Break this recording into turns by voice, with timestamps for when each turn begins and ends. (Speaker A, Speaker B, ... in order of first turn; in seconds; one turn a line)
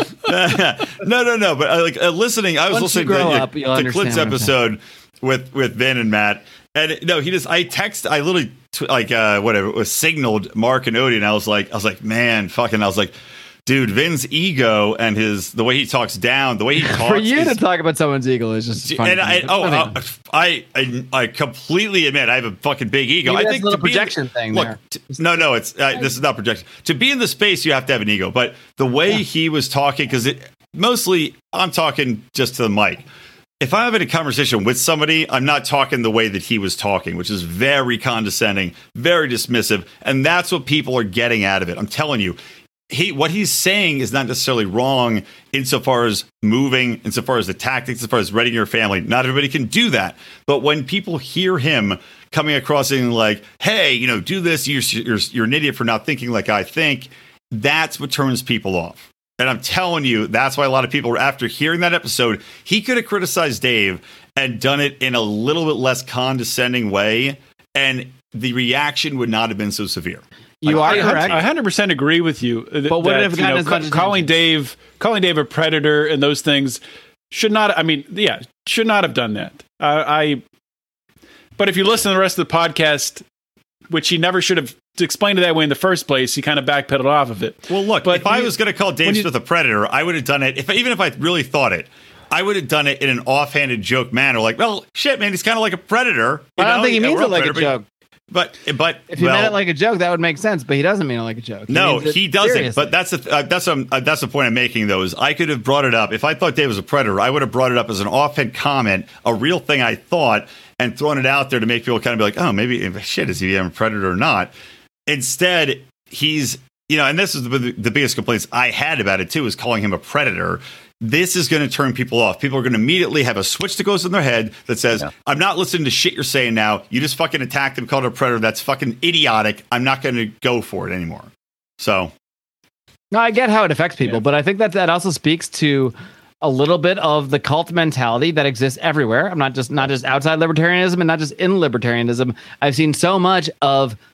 Speaker A: 0.2-17.6
Speaker B: 2.7-4.5
Speaker B: 16.8-20.0
Speaker A: 18.8-33.1
Speaker B: 23.2-25.2
Speaker A: 33.6-42.4
Speaker A: 42.9-71.5
Speaker B: 70.6-71.4
Speaker C: 70.7-76.8
Speaker B: 72.9-74.3
Speaker C: 77.3-80.4
Speaker C: 81.6-83.2
Speaker C: 83.9-88.5
Speaker A: 87.7-97.7
Speaker C: 89.0-89.3
Speaker B: 96.6-97.8
Speaker A: 98.3-99.6
Speaker B: 99.1-102.9
Speaker A: 101.7-114.5
Speaker A: 115.1-132.1
Speaker B: 133.1-144.0